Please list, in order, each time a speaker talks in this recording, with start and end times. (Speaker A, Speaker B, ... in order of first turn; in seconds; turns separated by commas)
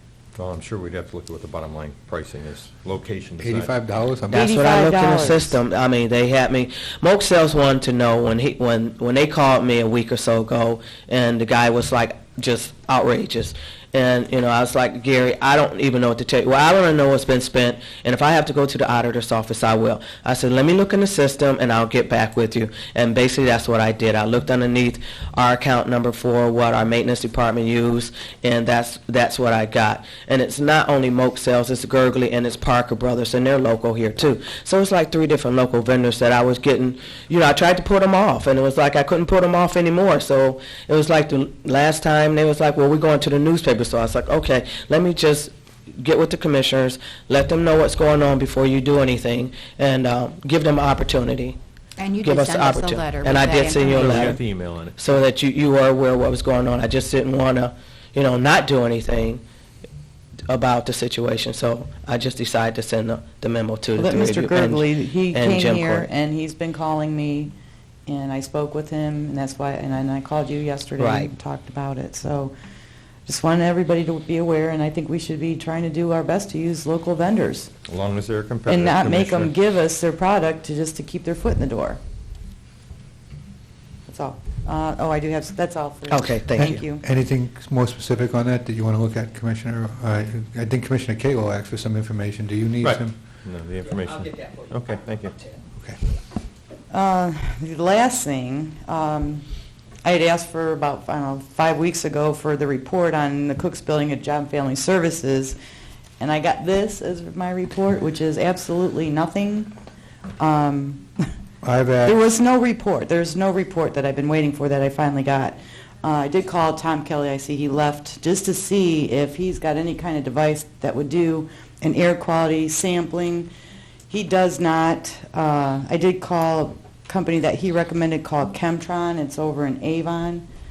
Speaker A: 0.3-3.7, Speaker B: 3.4-4.5, Speaker C: 4.3-51.6, Speaker D: 4.3-5.6, Speaker E: 52.0-54.3, Speaker C: 52.2-54.4, Speaker A: 53.8-55.2, Speaker C: 55.0-59.4, Speaker C: 60.5-66.1, Speaker D: 63.9-67.5, Speaker D: 68.1-72.5, Speaker C: 71.0-71.3, Speaker D: 73.2-77.7, Speaker A: 77.8-79.5, Speaker D: 78.7-82.0, Speaker D: 84.1-87.0, Speaker C: 86.1-86.8, Speaker B: 86.6-93.2, Speaker A: 92.8-95.4, Speaker D: 96.9-99.4, Speaker D: 100.0-105.5, Speaker D: 106.2-109.7, Speaker D: 110.4-111.1, Speaker B: 111.6-112.2, Speaker D: 112.0-123.5, Speaker D: 124.1-130.4